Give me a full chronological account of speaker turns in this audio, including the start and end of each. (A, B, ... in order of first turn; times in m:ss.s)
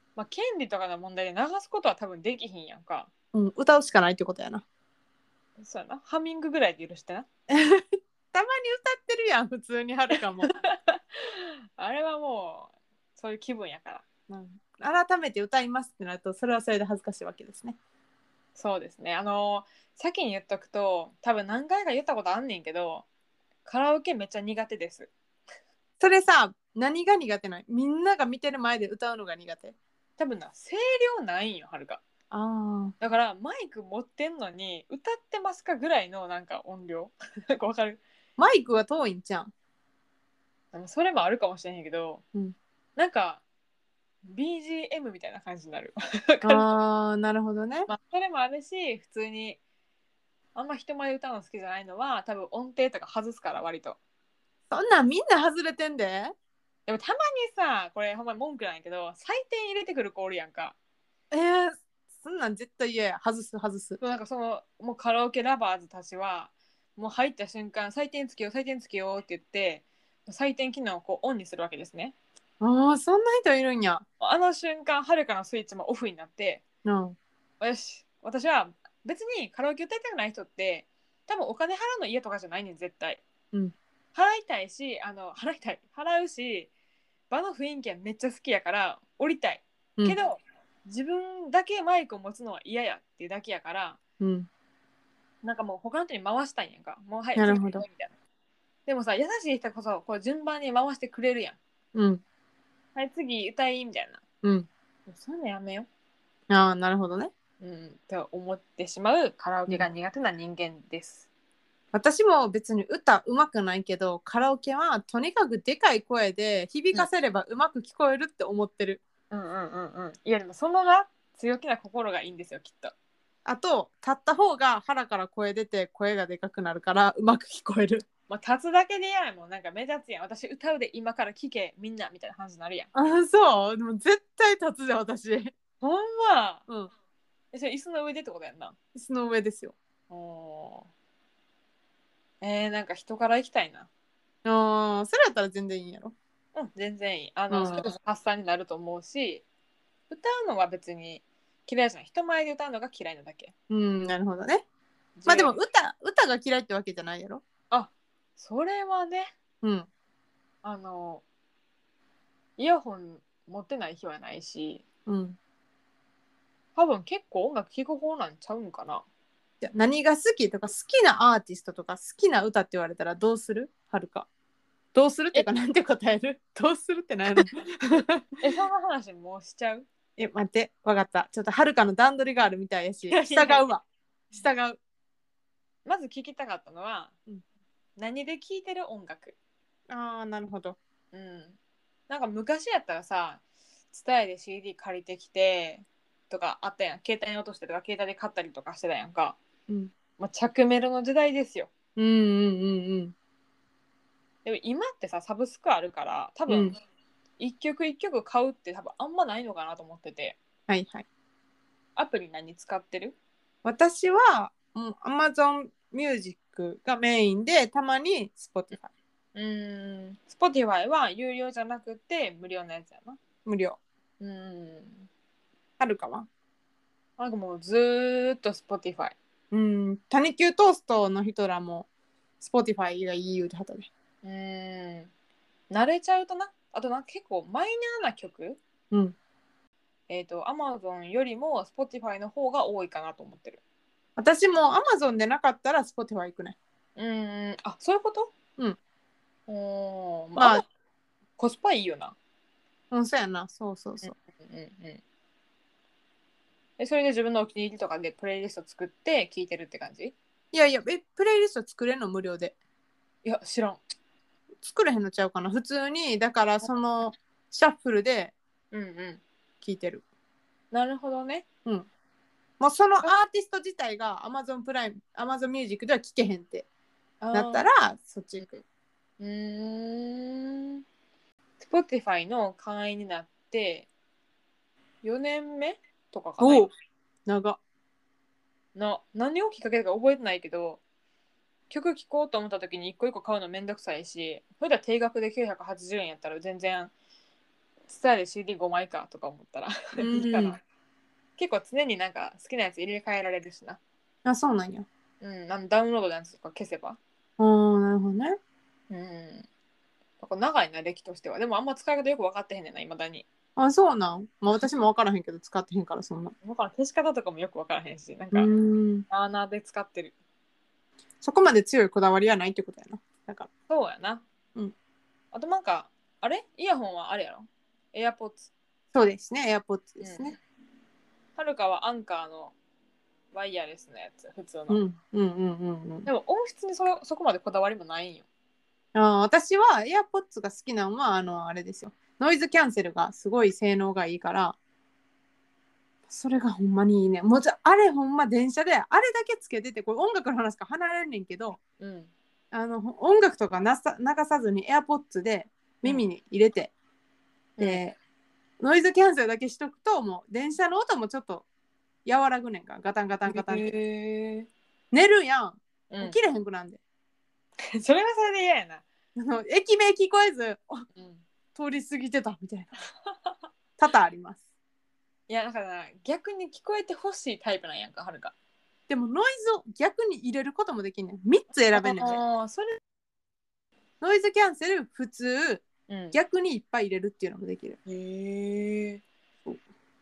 0:00.2-0:03.1 A
0:03.3-0:04.6 B
0:05.6-0:07.3 A
0:07.5-0:10.5 B
0:10.4-0:14.0 A
0:14.3-0:17.8 B
0:18.6-0:23.0 A
0:23.6-0:25.1 A
0:26.0-0:29.7 B
0:30.2-0:32.0 A
0:32.3-0:32.9 B
0:33.0-0:38.0 A
0:38.4-0:39.5 B
0:40.7-0:42.2 A
0:43.0-0:43.4 A
0:44.2-0:46.6 A
0:46.4-0:47.9 B
0:47.9-0:49.6 A
0:50.5-0:54.0 A
0:54.7-0:56.3 B
0:56.9-1:00.8 A
1:01.3-1:04.0 B
1:04.0-1:12.1 A
1:12.6-1:14.0 B
1:14.2-1:16.6 A
1:16.8-1:17.2 B
1:17.6-1:23.2 A
1:24.1-1:26.7 A
1:27.3-1:34.0 A
1:34.2-1:34.5 B
1:35.4-1:38.1 A
1:37.4-1:37.8 B
1:38.8-1:41.6 A
1:41.9-1:42.2 B
1:42.9-1:44.2 A
1:44.4-1:44.7 B
1:45.1-1:45.9 A
1:46.5-1:47.3 B
1:47.6-1:51.2 A
1:51.9-1:59.0 B
1:59.3-2:02.9 A
2:03.4-2:08.1 B
2:08.3-2:12.9 A
2:12.9-2:15.5 B
2:15.8-2:16.6 A
2:17.5-2:18.8 A
2:18.9-2:19.8 B
2:20.1-2:20.9 A
2:22.4-2:23.9 A
2:24.4-2:26.1 B
2:26.5-2:29.4 A
2:27.5-2:27.9 B
2:30.1-2:33.5 A
2:33.7-2:34.6 B
2:35.2-2:35.6 A
2:35.2-2:37.4 B
2:37.7-2:39.3 A
2:39.6-2:39.9 B
2:40.6-2:41.2 A
2:42.6-2:44.8 A
2:45.0-2:45.4 B
2:46.8-2:49.0 A
2:49.6-2:54.3 B
2:54.9-2:58.2 B
2:58.4-2:59.9 A
3:00.2-3:04.8 B
3:03.1-3:03.7 A
3:05.8-3:07.1 A
3:08.0-3:09.4 A
3:09.9-3:10.8 B
3:11.1-3:11.6 A
3:12.1-3:19.4 A
3:19.7-3:19.9 B
3:20.2-3:21.7 A
3:22.0-3:23.1 B
3:24.4-3:26.8 A
3:26.5-3:26.7 B
3:27.4-3:30.4 A
3:30.7-3:31.0 B
3:32.0-3:33.2 A
3:33.6-3:38.9 B
3:39.3-3:43.2 A
3:43.4-3:43.8 B
3:44.2-3:45.1 A
3:45.8-3:46.3 B
3:47.2-3:49.2 A
3:49.5-3:51.9 B
3:52.4-3:53.9 B
3:54.2-3:55.1 A
3:55.7-3:58.6 A
4:00.1-4:03.6 A
4:04.2-4:06.6 B
4:07.0-4:08.3 A
4:09.5-4:10.6 A
4:10.4-4:10.6 B
4:11.4-4:12.2 A
4:12.9-4:14.1 B
4:14.0-4:15.0 A
4:16.8-4:20.1 A
4:20.5-4:22.5 B
4:23.2-4:23.8 A
4:24.6-4:28.3 B
4:28.7-4:29.2 A
4:29.6-4:30.0 B
4:30.7-4:31.4 A
4:32.6-4:36.6 B
4:37.2-4:37.7 A
4:37.3-4:38.6 B
4:39.2-4:40.8 A
4:41.6-4:43.9 A
4:45.0-4:46.7 A
4:46.4-4:46.7 B
4:47.2-4:47.6 B
4:48.7-4:50.8 A
4:51.7-4:56.9 A
4:57.9-5:00.6 A
5:00.0-5:00.6 B
5:01.4-5:03.8 A
5:04.2-5:04.9 B
5:05.2-5:07.0 A
5:07.4-5:08.4 B
5:08.9-5:09.5 A
5:10.2-5:13.2 A
5:13.6-5:16.3 B
5:16.4-5:18.5 A
5:18.3-5:19.0 B
5:19.1-5:20.1 A
5:21.2-5:23.5 B
5:23.7-5:24.2 A
5:25.3-5:28.5 A
5:28.9-5:30.4 B
5:30.0-5:30.4 A
5:31.4-5:32.5 A
5:33.3-5:34.8 A
5:34.7-5:36.1 B
5:36.0-5:38.2 A
5:38.9-5:44.6 B
5:46.1-5:51.6 B
5:51.8-5:52.1 A
5:52.5-5:56.7 B
5:57.6-5:57.8 A
5:57.6-5:58.0 B
5:58.6-6:01.4 B
6:02.0-6:03.7 B
6:03.2-6:04.5 A
6:04.9-6:06.8 B
6:05.9-6:06.2 A
6:07.7-6:08.8 A
6:09.2-6:10.8 B
6:11.0-6:11.2 A
6:11.5-6:12.7 B
6:13.8-6:14.4 B
6:15.3-6:18.3 A
6:18.9-6:22.2 B
6:21.7-6:22.8 A
6:24.0-6:27.8 B
6:25.9-6:26.2 A
6:27.8-6:29.0 A